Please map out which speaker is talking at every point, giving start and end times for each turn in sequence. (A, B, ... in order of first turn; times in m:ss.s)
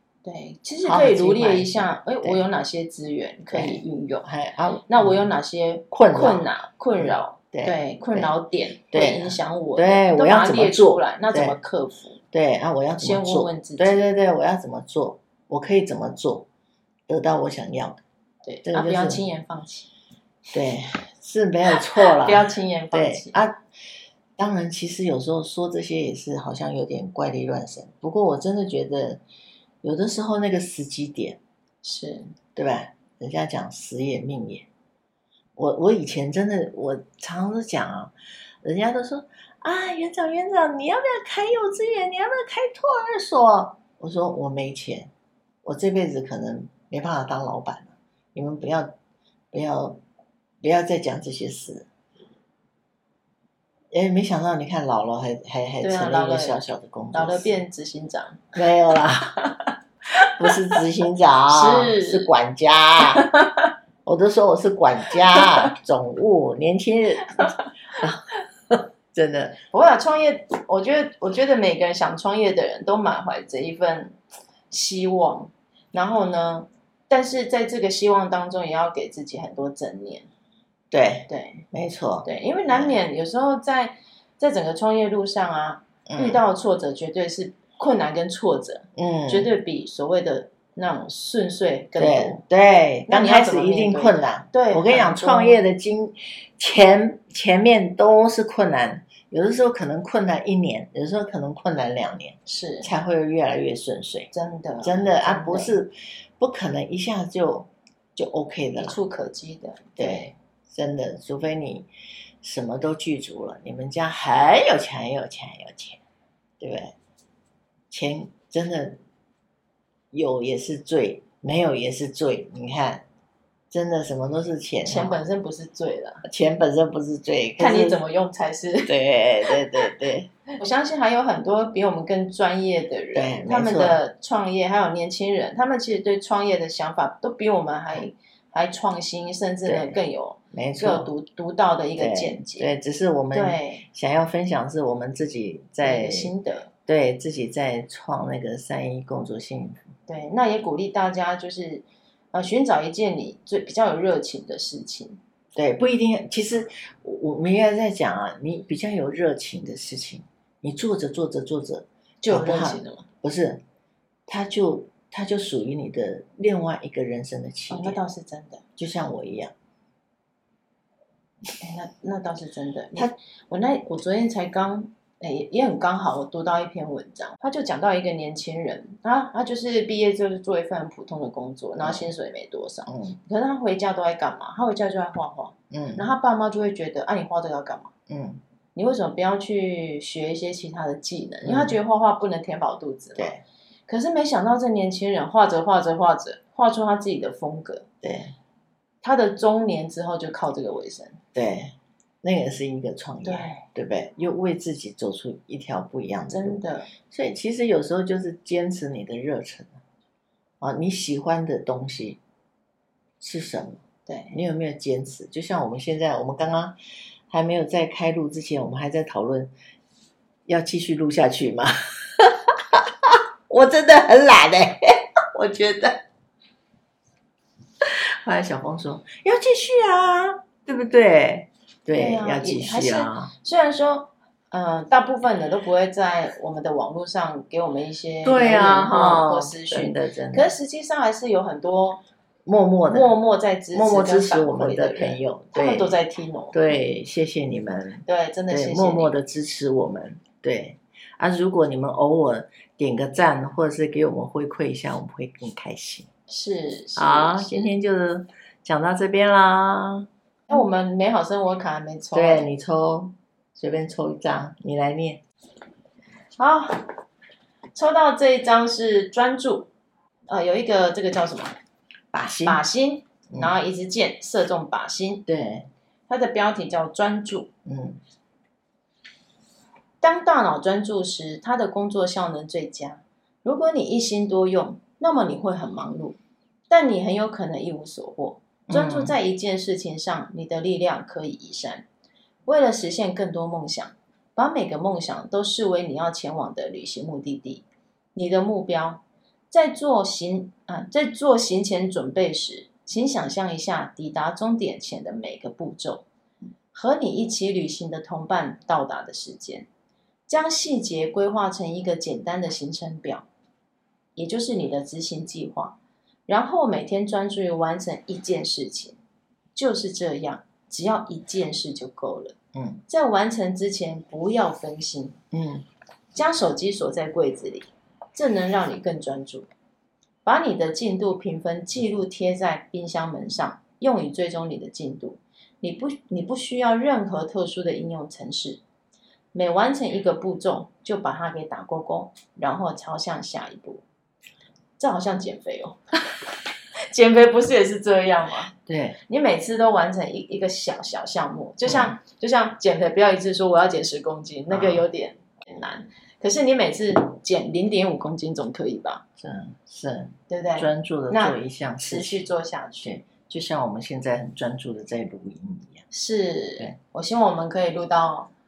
0:00.2-0:04.3 A
0:00.8-0:02.4 B
0:03.5-0:05.3 B
0:04.9-0:12.2 A
0:05.9-0:06.5 B
0:07.0-0:08.3 B
0:08.9-0:11.6 B
0:12.3-0:16.5 B
0:13.0-0:14.0 A
0:17.1-0:18.0 B
0:18.4-0:19.9 A
0:18.6-0:19.2 B
0:20.5-0:23.6 B
0:21.9-0:23.4 A
0:24.4-0:29.2 B
0:29.8-0:31.4 B
0:31.8-0:32.4 A
0:32.6-0:34.7 B
0:35.6-0:45.1 B
0:45.6-0:48.9 B
0:49.5-0:50.0 B
0:50.6-0:51.9 B
0:53.9-0:57.6 B
0:55.8-0:56.6 A
0:57.1-0:58.6 A
0:58.6-0:59.4 B
0:59.4-1:00.6 A
1:00.3-1:03.3 B
1:01.5-1:02.3 A
1:03.1-1:03.7 A
1:04.0-1:09.6 B
1:05.3-1:05.7 A
1:07.4-1:07.7 A
1:09.7-1:14.2 A
1:14.7-1:20.3 A
1:20.9-1:23.0 B
1:21.3-1:21.6 A
1:22.2-1:32.4 A
1:26.1-1:26.4 B
1:29.0-1:29.5 B
1:32.0-1:44.3 B
1:33.1-1:35.6 A
1:42.5-1:42.9 A
1:44.3-1:45.8 A
1:44.8-1:49.0 B
1:48.8-1:50.3 A
1:50.0-1:51.9 B
1:52.4-1:56.0 B
1:56.6-1:56.9 B
1:57.9-1:59.0 B
2:00.1-2:03.0 B
2:03.7-2:05.2 B
2:04.8-2:06.2 A
2:06.2-2:08.0 B
2:07.6-2:08.9 A
2:08.9-2:10.4 B
2:10.6-2:22.7 A
2:13.1-2:14.0 B
2:19.6-2:20.0 B
2:20.5-2:21.1 B
2:22.0-2:26.3 B
2:23.3-2:23.8 A
2:25.8-2:26.7 A
2:26.9-2:29.9 B
2:30.1-2:35.2 A
2:35.6-2:43.6 B
2:42.2-2:43.1 A
2:44.3-2:48.0 B
2:47.7-2:48.6 A
2:48.8-2:49.5 B
2:51.6-3:07.9 A
3:01.8-3:02.1 B
3:02.9-3:03.2 B
3:05.7-3:06.1 B
3:08.1-3:08.4 B
3:08.8-3:13.3 A
3:11.4-3:11.8 B
3:13.2-3:13.4 B
3:13.9-3:17.9 A
3:18.0-3:18.3 B
3:19.0-3:21.2 A
3:21.3-3:29.8 B
3:23.2-3:23.6 A
3:26.3-3:26.9 A
3:30.6-3:32.2 B
3:33.2-3:36.8 B
3:34.1-3:34.4 A
3:37.3-3:39.5 B
3:40.5-3:46.0 B
3:47.8-3:53.3 B
3:52.0-4:02.0 A
3:58.2-4:00.5 B
4:02.5-4:03.2 B
4:02.9-4:06.8 A
4:03.7-4:06.0 B
4:06.5-4:16.1 B
4:08.1-4:09.1 A
4:16.3-4:17.7 A
4:17.0-4:20.1 B
4:20.5-4:22.5 A
4:22.1-4:25.2 B
4:26.4-4:26.9 A
4:27.8-4:29.7 A
4:30.3-4:31.6 A
4:32.1-4:32.6 B
4:32.4-4:35.3 A
4:35.3-4:35.7 B
4:36.1-4:37.5 A
4:37.7-4:38.0 B
4:40.0-4:46.2 A
4:46.7-4:51.8 A
4:48.7-4:49.2 B
4:52.5-5:06.1 A
5:06.7-5:09.7 A
5:10.3-5:13.3 A
5:14.2-5:19.0 A
5:19.6-5:25.2 A
5:22.5-5:22.8 B
5:25.3-5:25.7 B
5:26.1-5:29.5 A
5:30.2-5:38.6 A
5:39.3-5:43.8 A
5:44.8-5:45.8 A
5:46.9-5:48.5 A
5:48.7-5:49.0 B
5:49.1-5:59.0 A
5:51.6-5:52.0 B
5:54.5-5:54.8 B
5:59.2-6:02.2 B
6:00.3-6:03.0 A
6:02.8-6:05.8 B
6:05.9-6:08.3 A